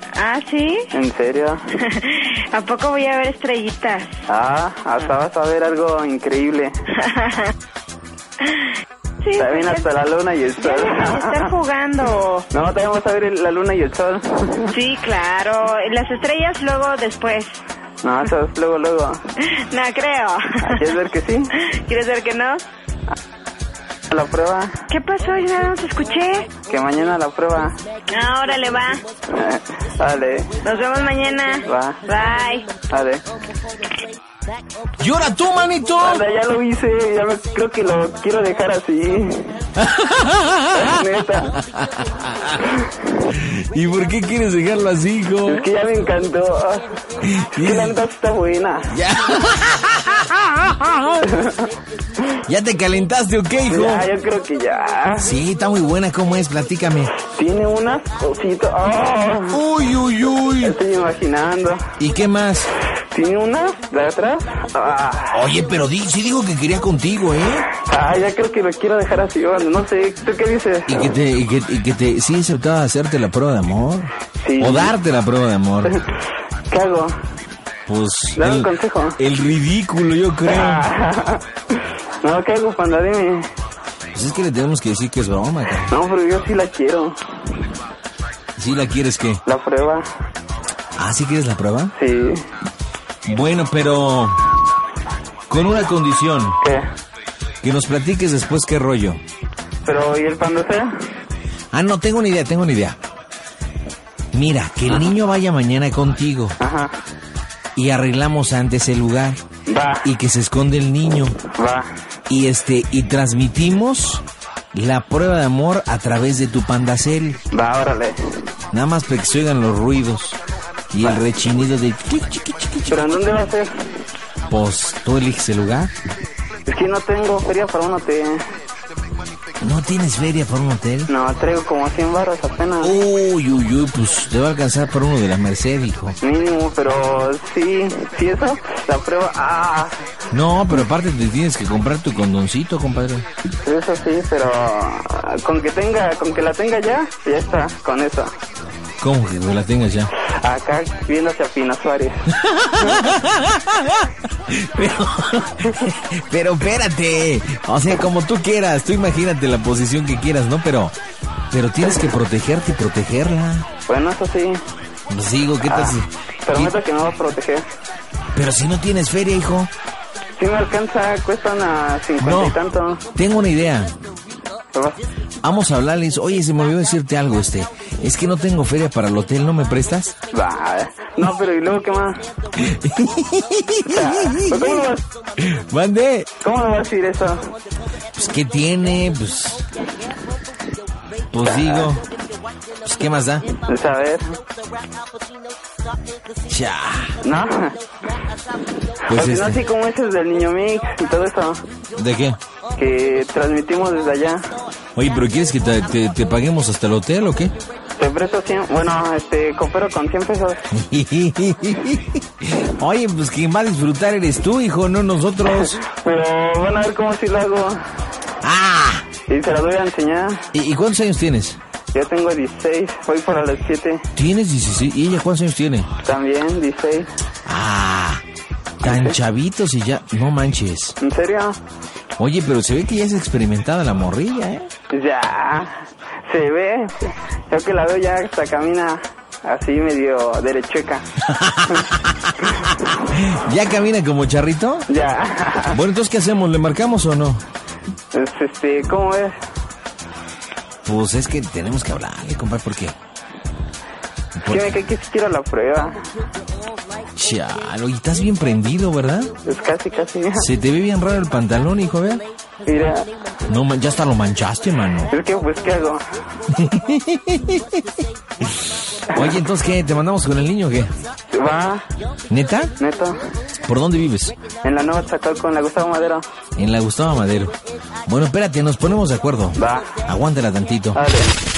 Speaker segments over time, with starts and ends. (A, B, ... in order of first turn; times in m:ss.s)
0:00.2-0:00.9 A
0:00.9-0:01.6 B
0:01.7-0:04.2 A
0:04.3-0:06.7 B
0:07.0-0:07.5 A
0:08.4-0:08.7 A
0:09.2-0:09.9 A
0:09.4-0:11.5 B
0:10.6-0:12.5 A
0:12.5-0:14.8 B
0:14.7-0:17.6 A
0:18.0-0:19.2 B
0:19.4-0:20.9 A
0:20.6-0:21.5 B
0:21.6-0:22.6 A
0:24.1-0:24.8 B
0:24.9-0:26.5 A
0:26.6-0:27.8 B
0:28.1-0:29.0 A
0:29.3-0:30.6 B
0:30.6-0:32.7 A
0:31.7-0:32.0 B
0:32.8-0:33.2 B
0:35.0-0:36.2 C
0:36.0-0:39.4 B
0:39.8-0:41.0 C
0:40.7-0:41.6 B
0:41.6-0:42.6 C
0:43.3-0:45.6 C
0:45.4-0:46.9 B
0:47.2-0:48.0 C
0:47.6-0:48.9 B
0:48.9-0:51.3 C
0:51.2-0:51.7 B
0:52.4-0:54.1 C
0:53.7-0:55.3 B
0:55.2-0:57.1 C
0:57.3-0:59.6 B
0:59.5-1:00.8 C
1:00.6-1:01.8 B
1:02.0-1:02.7 C
1:03.1-1:05.4 B
1:05.3-1:07.7 C
1:07.8-1:11.1 B
1:10.9-1:16.0 C
1:14.4-1:14.9 B
1:16.7-1:17.2 B
1:17.9-1:20.8 C
1:18.4-1:19.2 B
1:20.5-1:21.4 B
1:22.2-1:23.5 B
1:24.1-1:25.9 C
1:25.9-1:27.2 B
1:28.6-1:29.4 C
1:29.4-1:30.0 B
1:31.0-1:31.9 C
1:31.9-1:32.4 B
1:33.3-1:34.5 C
1:35.5-1:36.6 C
1:36.6-1:36.9 B
1:37.6-1:39.2 C
1:39.8-1:40.9 B
1:41.7-1:43.0 C
1:44.3-1:46.6 C
1:46.6-1:46.9 B
1:47.8-1:49.4 C
1:49.7-1:50.1 B
1:50.0-1:51.4 C
1:51.6-1:51.9 B
1:52.3-1:57.4 C
1:57.5-1:58.2 B
1:58.7-2:00.4 C
2:00.9-2:03.2 C
2:02.9-2:03.7 B
2:04.5-2:05.9 C
2:06.7-2:08.4 B
2:09.6-2:11.1 C
2:11.1-2:12.9 B
2:12.8-2:16.2 C
2:16.2-2:19.9 B
2:20.3-2:23.3 C
2:23.6-2:28.3 B
2:29.0-2:30.1 C
2:30.3-2:32.2 B
2:32.3-2:41.0 C
2:41.5-2:43.7 C
2:43.9-2:44.6 B
2:45.1-2:46.8 C
2:45.7-2:47.6 B
2:48.3-2:49.7 C
2:50.4-2:53.1 B
2:52.2-2:52.6 C
2:53.2-2:54.0 C
2:54.7-2:55.0 B
2:55.4-3:00.2 C
3:00.3-3:02.2 B
3:02.6-3:06.3 C
3:03.8-3:05.0 B
3:06.4-3:07.4 B
3:08.1-3:09.7 C
3:11.3-3:12.1 C
3:11.4-3:11.9 B
3:12.8-3:13.5 C
3:13.7-3:14.3 B
3:16.5-3:17.2 C
3:17.2-3:17.8 B
3:19.1-3:21.6 B
3:19.1-3:19.6 C
3:21.9-3:22.4 C
3:22.8-3:24.4 B
3:25.0-3:27.5 C
3:28.0-3:30.6 B
3:30.7-3:35.8 C
3:35.6-3:37.8 B
3:38.4-3:39.1 C
3:39.3-3:40.5 B
3:40.5-3:41.6 C
3:41.9-3:44.0 B
3:44.2-3:45.9 C
3:46.0-3:47.1 B
3:47.4-3:48.2 C
3:48.8-3:51.0 C
3:48.8-3:49.2 B
3:51.0-3:51.6 B
3:52.2-3:54.7 C
3:54.9-4:01.1 B
4:01.2-4:04.9 C
4:04.9-4:05.8 B
4:05.7-4:07.4 C
4:08.1-4:09.4 B
4:10.8-4:13.0 C
4:14.4-4:14.7 C
4:14.5-4:16.0 B
4:17.2-4:19.3 C
4:19.4-4:20.5 B
4:20.4-4:22.2 C
4:22.6-4:23.1 B
4:23.5-4:25.1 C
4:25.1-4:26.0 B
4:26.5-4:27.9 C
4:28.4-4:30.9 C
4:31.3-4:31.8 B
4:32.3-4:32.8 C
4:32.8-4:33.2 B
4:33.6-4:34.4 C
4:34.6-4:36.3 B
4:36.6-4:41.0 C
4:39.6-4:40.0 B
4:40.9-4:41.3 B